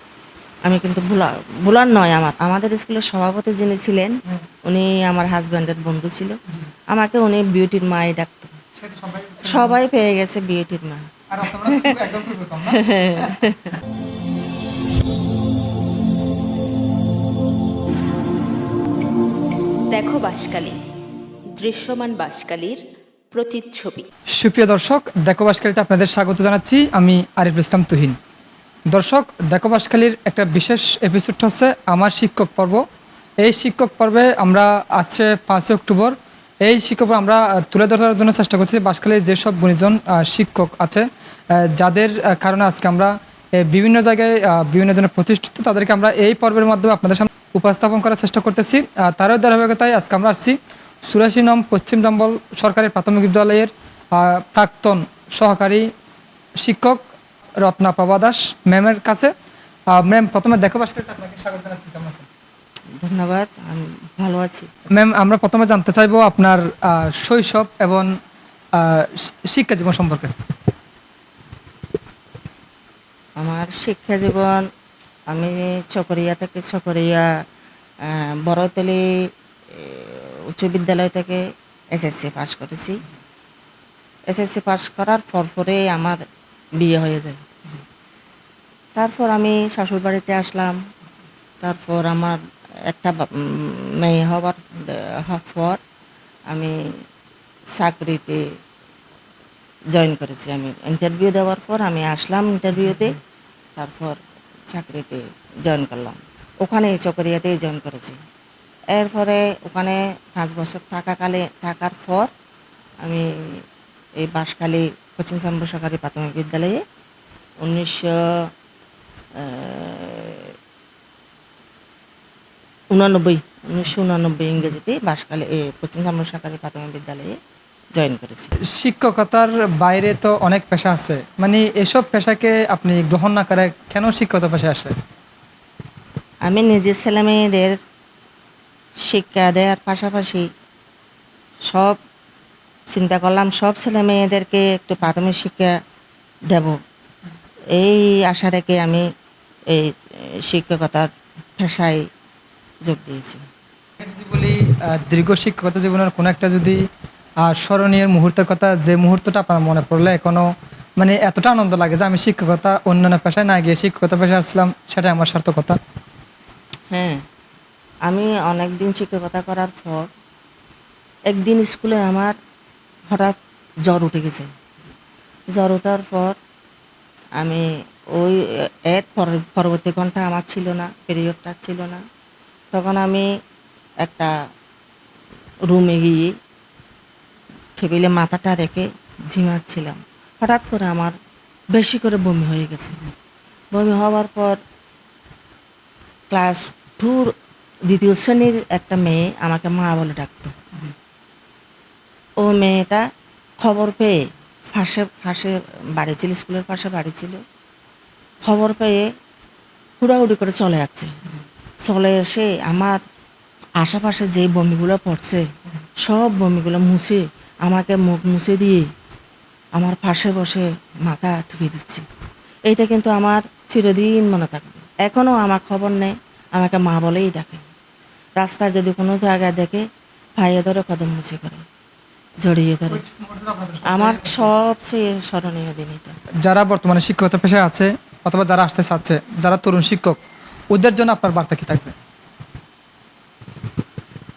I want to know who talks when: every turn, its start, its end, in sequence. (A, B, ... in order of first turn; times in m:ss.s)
0:00.6-0:04.2 A
0:04.7-0:06.4 A
0:06.9-0:08.6 A
0:08.8-0:09.8 B
0:09.4-0:12.0 A
0:11.3-0:13.4 B
0:12.7-0:13.8 A
0:19.9-0:20.8 C
0:21.6-0:24.1 C
0:24.4-0:28.2 B
0:28.9-0:32.8 B
0:33.4-0:41.1 B
0:41.7-0:43.1 B
0:43.7-0:55.9 B
0:56.6-0:57.0 B
0:57.6-0:59.3 B
0:59.9-1:02.3 B
1:03.0-1:04.7 A
1:05.0-1:08.1 B
1:08.8-1:10.3 B
1:13.4-1:14.7 A
1:15.3-1:17.3 A
1:18.0-1:19.0 A
1:19.8-1:21.4 A
1:21.9-1:23.0 A
1:24.3-1:26.2 A
1:26.8-1:27.4 A
1:29.0-1:30.8 A
1:31.6-1:32.4 A
1:32.9-1:35.8 A
1:36.5-1:36.8 A
1:37.8-1:38.4 A
1:39.9-1:43.2 A
1:43.8-1:44.2 A
1:44.7-1:48.2 A
1:48.9-1:52.3 A
1:53.0-1:53.6 A
1:54.2-1:56.8 A
1:57.6-1:58.5 A
1:59.4-2:00.5 A
2:02.9-2:07.4 A
2:08.0-2:08.5 A
2:08.7-2:15.0 B
2:16.4-2:17.8 A
2:19.1-2:20.5 A
2:21.7-2:22.0 A
2:22.9-2:25.7 A
2:26.5-2:26.8 A
2:27.7-2:29.1 A
2:30.5-2:32.0 A
2:32.8-2:33.4 A
2:34.0-2:36.8 B
2:37.4-2:40.5 B
2:41.0-2:45.8 B
2:46.9-2:47.2 A
2:48.1-2:50.1 A
2:51.3-2:52.4 A
2:53.1-2:54.5 A
2:55.5-2:56.4 A
2:57.4-2:57.6 A
2:58.2-3:02.0 A
3:02.7-3:03.3 A
3:04.0-3:04.3 A
3:05.7-3:06.3 A
3:07.8-3:11.2 A
3:11.7-3:13.0 A
3:13.7-3:14.6 A
3:16.3-3:17.3 A
3:17.9-3:20.6 A
3:22.4-3:23.0 A
3:23.6-3:27.4 A
3:28.4-3:29.1 A
3:30.0-3:31.1 A
3:31.8-3:33.0 A
3:33.8-3:35.5 A
3:36.0-3:38.9 A
3:39.8-3:42.0 A
3:42.7-3:47.6 A
3:48.4-3:49.8 A
3:50.4-3:51.6 A
3:52.4-3:53.0 A
3:52.9-3:54.5 B
3:53.8-3:56.2 A
3:56.4-4:00.2 B
4:00.7-4:02.0 B